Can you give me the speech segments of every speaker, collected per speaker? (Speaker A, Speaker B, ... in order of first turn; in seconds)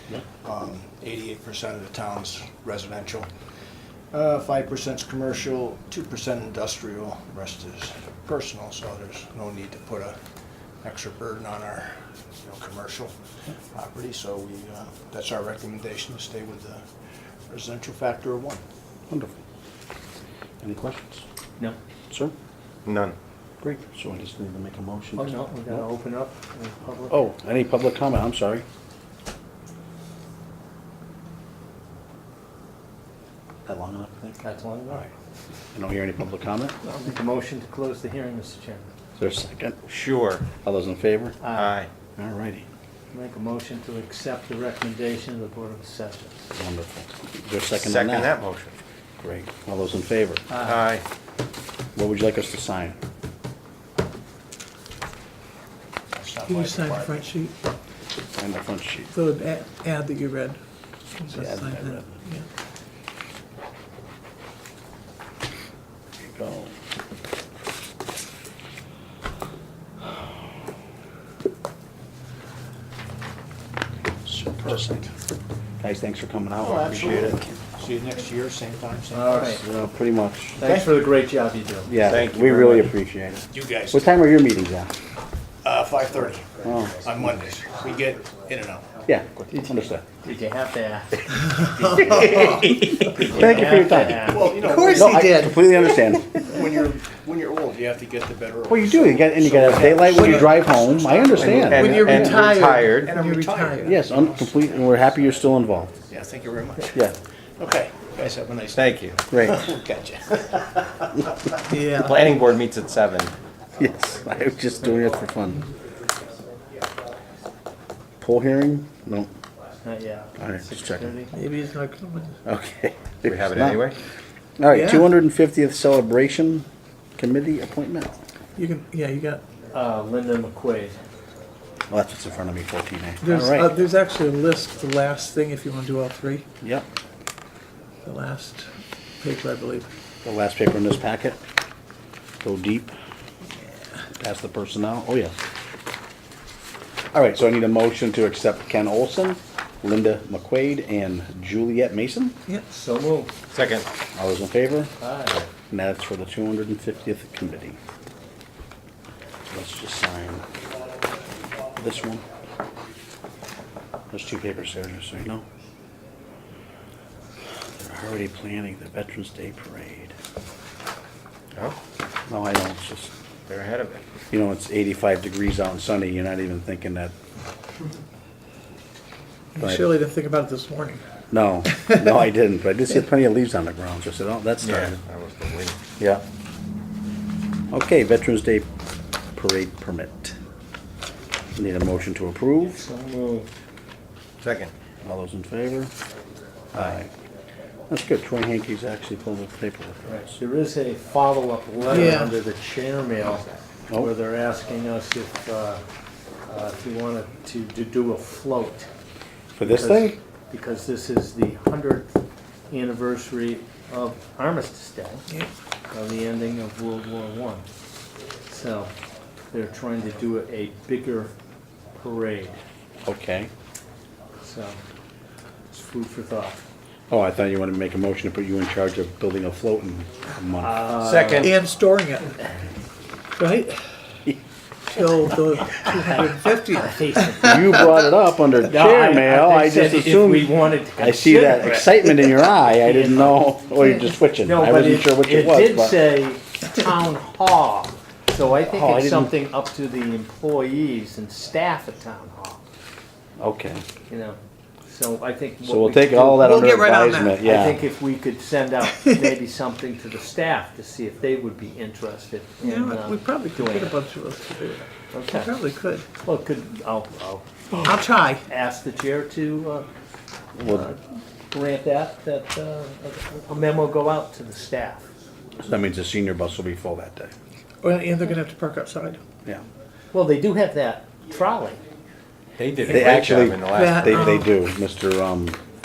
Speaker A: 0.4-3.3, 4.1-10.2, 10.8-16.9, 17.5-18.6, 56.1-57.3, 76.6-79.6, 80.6-80.9, 83.5-84.1, 85.6-88.9, 91.8-92.6, 94.2-95.7, 96.2-102.4, 102.9-104.7, 106.1-107.0, 107.6-111.3
Speaker B: 19.1-19.4, 20.6-21.2, 23.6-25.8, 27.1-28.6, 33.6-34.4, 35.7-36.8, 39.2-39.8, 40.6-41.4, 42.2-42.6, 46.5-48.3, 49.2-50.4, 51.9-53.0, 58.4-59.1, 61.4-62.1, 66.2-66.8, 74.2-75.1, 75.8-77.5, 79.6-80.6, 81.8-84.9, 86.6-87.0, 89.0-90.0, 92.5-96.4, 98.7-102.4, 103.8-105.9, 109.3-109.7, 113.8-115.7, 118.2-119.3, 120.4-121.2, 122.4-123.9, 124.6-126.7, 127.2-128.1, 131.9-133.8, 136.6-136.9, 140.2-141.4, 142.4-142.9, 144.1-145.3, 147.1-152.3, 154.1-154.9, 155.7-157.8, 159.5-160.4, 161.8-162.2, 164.1-165.4, 167.7-170.1, 172.3-173.1, 174.3-177.1, 179.6-179.9, 181.3-185.0, 186.0-186.2, 187.7-188.7, 189.3-190.4, 191.6-192.8, 195.0-195.9, 196.7-197.1, 197.9-200.3, 209.6-210.2, 223.0-223.5, 227.1-230.9, 237.4-246.1, 248.6-249.3, 253.4-253.8, 255.6-257.8, 270.6-270.9, 275.6-277.3, 282.9-285.6
Speaker C: 22.8-23.1, 39.9-40.5, 41.5-41.9, 47.7-48.7, 50.6-51.0, 76.9-77.4, 82.0-82.9, 92.5-93.3, 101.4-103.2, 108.7-109.2, 111.9-113.3, 123.2-124.0, 153.5-153.9, 173.5-174.0, 184.6-185.8, 194.4-194.7, 230.9-231.5, 282.6-284.5
Speaker D: 25.1-27.2, 34.4-35.1, 36.8-38.9, 41.4-41.8, 43.1-46.4, 50.5-50.9, 79.1-79.6, 80.6-81.9, 89.5-91.5, 93.0-94.5, 119.8-121.3, 129.7-131.0, 152.7-153.3, 155.0-155.4, 192.7-193.5, 200.1-205.8, 206.4-208.9, 209.6-212.2, 212.7-215.3, 215.9-217.7, 218.5-218.9, 219.5-221.3, 221.9-222.6, 224.4-224.8, 225.7-226.7, 230.6-231.6, 235.7-237.8, 238.7-243.6, 244.4-252.6, 254.1-256.5, 257.4-264.0, 265.1-265.5, 266.2-269.9, 270.6-275.1, 280.1-281.8
Speaker E: 56.5-57.5, 59.1-60.6, 61.2-62.4, 91.5-92.8, 94.6-95.8, 100.2-100.7, 101.5-104.0, 111.6-112.3, 121.3-122.4, 124.7-125.1, 128.6-129.4, 133.2-136.5, 138.0-138.7, 139.2-139.9, 179.5-181.0, 181.7-182.0, 201.9-202.3, 231.4-232.4, 233.4-233.8, 234.9-237.7, 256.4-257.4, 258.9-259.3, 262.6-266.1, 267.7-268.4, 277.8-279.2, 283.7-284.5